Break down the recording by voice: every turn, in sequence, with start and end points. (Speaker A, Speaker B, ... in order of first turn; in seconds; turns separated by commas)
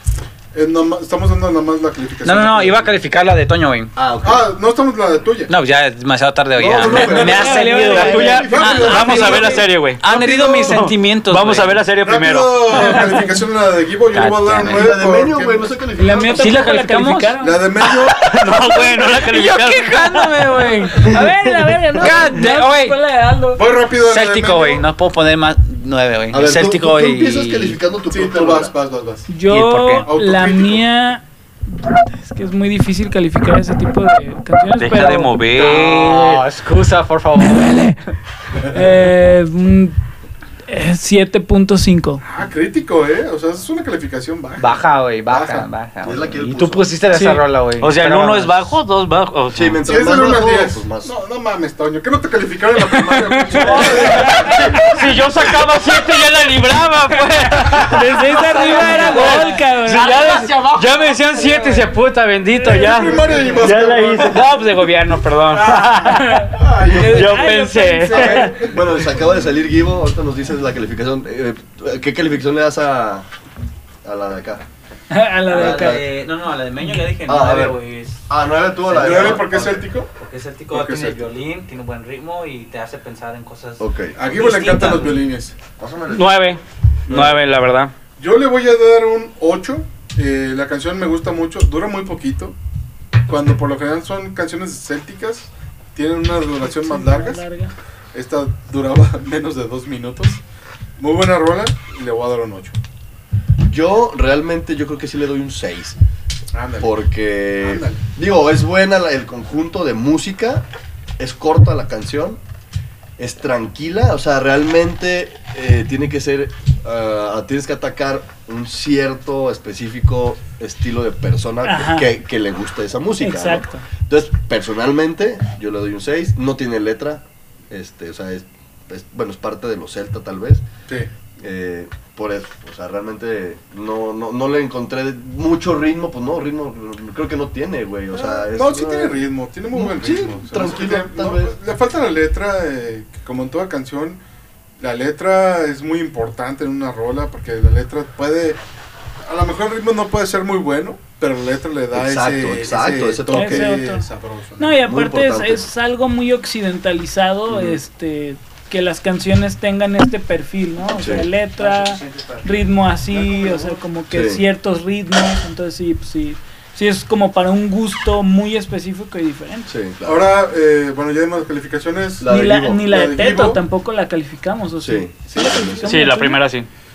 Speaker A: 0.5-3.0, Speaker B: 2.2-3.9, Speaker C: 4.0-4.5, Speaker A: 4.2-5.5, Speaker B: 5.5-9.3, Speaker C: 6.5-9.6, Speaker D: 6.9-8.6, Speaker E: 7.9-13.1, Speaker A: 8.5-10.8, Speaker B: 10.0-11.7, Speaker A: 12.0-15.8, Speaker D: 12.7-13.3, Speaker B: 14.1-14.9, Speaker C: 14.6-16.7, Speaker D: 16.0-17.6, Speaker B: 16.3-21.3, Speaker A: 17.4-18.2, Speaker E: 18.2-20.3, Speaker D: 20.6-23.6, Speaker B: 21.9-23.0, Speaker A: 23.6-24.9, Speaker B: 24.0-27.8, Speaker C: 26.3-28.7, Speaker A: 28.1-29.3, Speaker D: 29.3-35.4, Speaker B: 29.5-30.1, Speaker A: 30.1-30.8, Speaker E: 34.8-36.4, Speaker B: 35.2-37.7, Speaker D: 37.4-38.1, Speaker D: 38.6-40.0, Speaker D: 40.7-42.2, Speaker A: 42.2-45.7, Speaker B: 44.6-48.5, Speaker C: 46.0-46.9, Speaker E: 47.8-49.8, Speaker C: 49.5-51.1, Speaker A: 49.8-55.0, Speaker D: 53.5-54.8, Speaker E: 53.5-68.5, Speaker D: 57.6-60.6, Speaker B: 58.5-61.1, Speaker A: 61.4-61.8, Speaker D: 62.6-63.6, Speaker A: 62.7-64.6, Speaker A: 65.5-67.1, Speaker D: 65.8-68.7, Speaker C: 66.7-67.3, Speaker A: 68.1-68.8, Speaker C: 68.1-73.3, Speaker C: 74.0-74.6, Speaker D: 75.1-76.0, Speaker B: 75.5-78.2, Speaker C: 75.5-76.0, Speaker C: 77.2-79.9, Speaker B: 78.9-79.6, Speaker A: 78.9-80.1, Speaker B: 80.1-85.3, Speaker A: 80.7-81.2, Speaker C: 83.8-84.2, Speaker A: 84.2-85.5, Speaker C: 85.8-86.2, Speaker E: 86.1-87.9, Speaker A: 87.1-87.3, Speaker A: 88.2-92.5, Speaker A: 93.3-97.4, Speaker D: 96.6-97.7, Speaker A: 98.1-100.4, Speaker A: 101.0-102.7, Speaker C: 103.7-106.0, Speaker A: 106.5-107.0, Speaker C: 106.8-110.7, Speaker A: 107.6-108.0, Speaker C: 111.2-112.4, Speaker C: 113.2-130.7, Speaker D: 121.6-122.1, Speaker D: 123.2-123.9, Speaker C: 131.4-141.6, Speaker A: 138.1-144.2, Speaker A: 144.8-148.6, Speaker A: 149.2-154.7, Speaker C: 151.9-153.7, Speaker D: 153.3-154.1, Speaker D: 154.6-169.7, Speaker C: 154.8-155.7, Speaker C: 157.5-157.8, Speaker C: 161.0-161.3, Speaker B: 161.6-162.6, Speaker A: 163.1-163.8, Speaker C: 164.1-164.4, Speaker C: 169.7-170.3, Speaker A: 170.0-173.6, Speaker C: 172.2-172.9, Speaker D: 172.3-176.4, Speaker C: 174.8-176.0, Speaker A: 175.3-175.8, Speaker E: 175.9-176.7